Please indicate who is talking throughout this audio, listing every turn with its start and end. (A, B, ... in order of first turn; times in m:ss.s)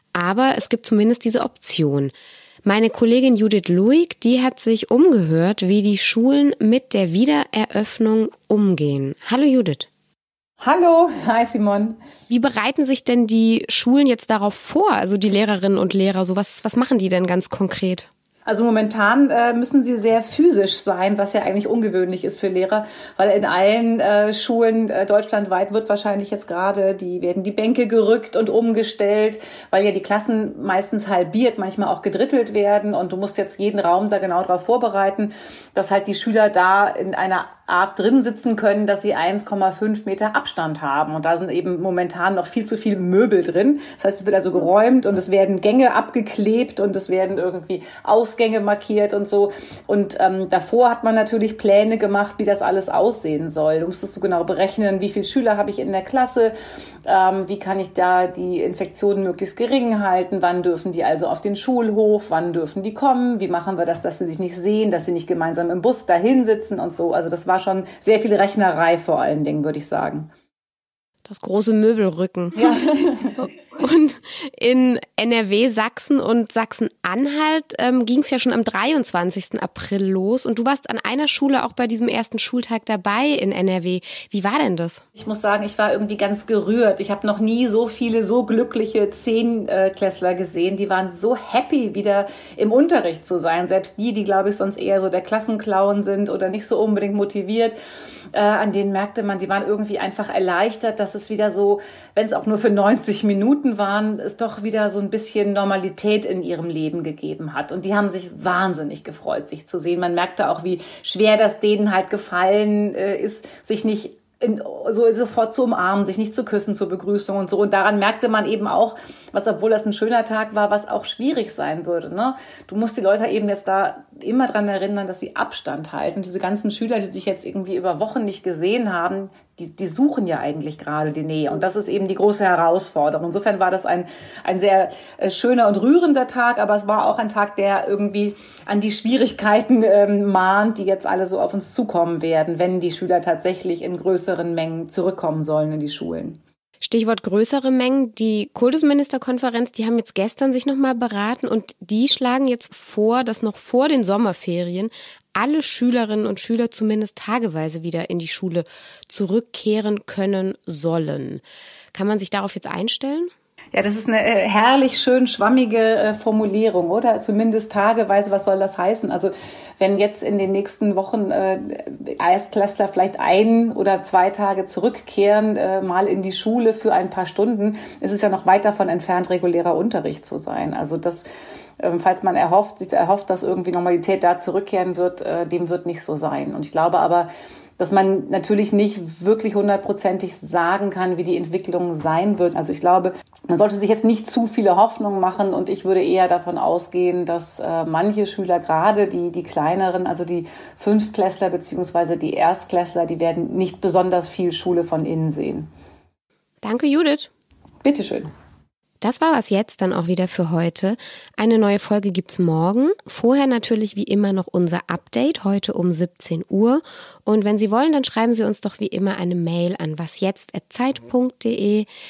0:00.1-0:02.1 A
0:02.6-0:09.9 A
0:10.6-0:12.0 B
0:12.3-0:18.1 A
0:18.4-0:56.5 B
0:57.0-1:10.3 B
1:11.2-1:25.0 A
1:12.6-1:13.0 B
1:25.2-1:37.8 B
1:38.3-2:26.4 B
2:26.8-2:41.4 A
2:41.9-2:43.3 A
2:43.7-3:01.3 B
3:01.8-3:25.7 B
3:26.6-3:27.3 A
3:27.8-3:28.3 B
3:29.0-3:41.9 A